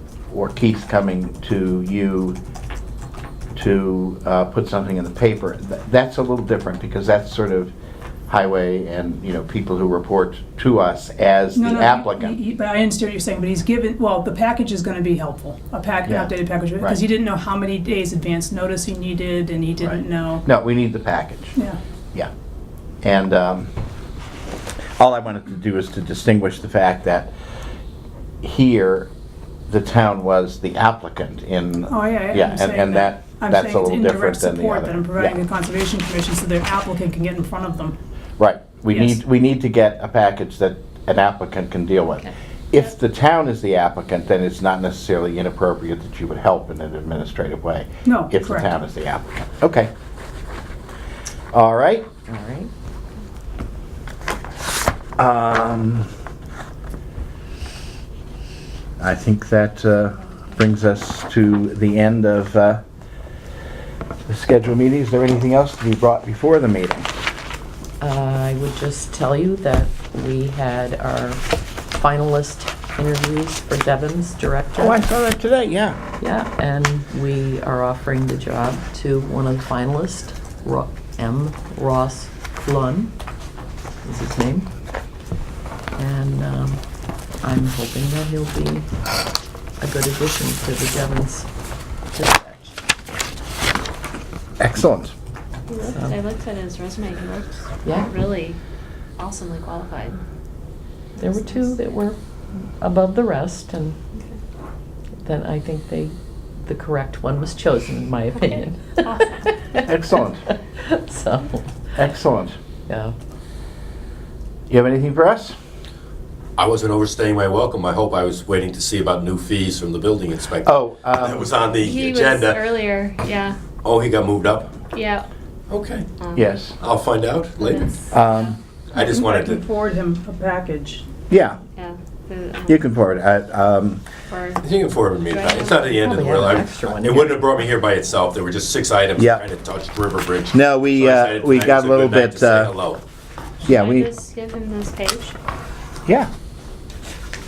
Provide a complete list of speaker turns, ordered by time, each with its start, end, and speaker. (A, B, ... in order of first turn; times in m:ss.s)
0:00.3-0:02.4 A
0:03.5-0:07.7 A
0:08.3-0:12.4 A
0:11.6-0:20.4 B
0:16.1-0:17.0 A
0:19.8-0:21.6 A
0:23.0-0:23.7 A
0:25.0-0:27.3 A
0:28.4-0:29.1 A
0:29.7-0:35.4 A
0:31.9-0:38.0 B
0:38.4-0:49.9 A
0:48.0-0:48.7 B
0:51.5-0:52.1 A
0:52.3-0:52.7 C
0:55.2-0:56.1 A
0:59.0-1:02.8 A
1:04.3-1:07.1 A
1:08.0-1:11.4 C
1:11.9-1:15.0 C
1:14.8-1:16.0 A
1:16.2-1:23.1 C
1:24.0-1:24.7 C
1:26.0-1:26.8 C
1:27.4-1:28.9 C
1:29.8-1:31.5 C
1:32.1-1:32.7 C
1:34.6-1:35.1 A
1:35.7-1:38.6 D
1:35.8-1:36.2 C
1:37.8-1:38.1 C
1:39.2-1:40.2 D
1:41.2-1:41.8 D
1:41.2-1:44.0 C
1:45.2-1:51.8 C
1:48.4-1:49.3 D
1:49.8-1:50.4 A
1:52.0-1:52.6 A
1:52.9-1:53.1 C
1:54.7-1:55.6 A
1:56.6-2:02.7 E
2:00.6-2:01.6 A
2:01.8-2:03.6 D
2:03.8-2:04.7 E
2:04.9-2:05.3 D
2:05.7-2:06.1 E
2:06.2-2:06.6 D
2:06.4-2:06.8 A
2:06.8-2:07.9 E
2:07.6-2:08.5 D
2:08.1-2:08.6 A
2:08.9-2:09.6 E
2:09.0-2:11.1 B
2:11.3-2:11.6 A
2:11.8-2:12.8 D
2:12.7-2:14.0 A
2:14.3-2:14.7 D
2:14.6-2:23.0 E
2:15.2-2:16.2 D
2:15.9-2:17.4 C
2:19.2-2:19.4 A
2:20.5-2:22.8 A
2:23.6-2:24.1 A
2:23.6-2:25.4 D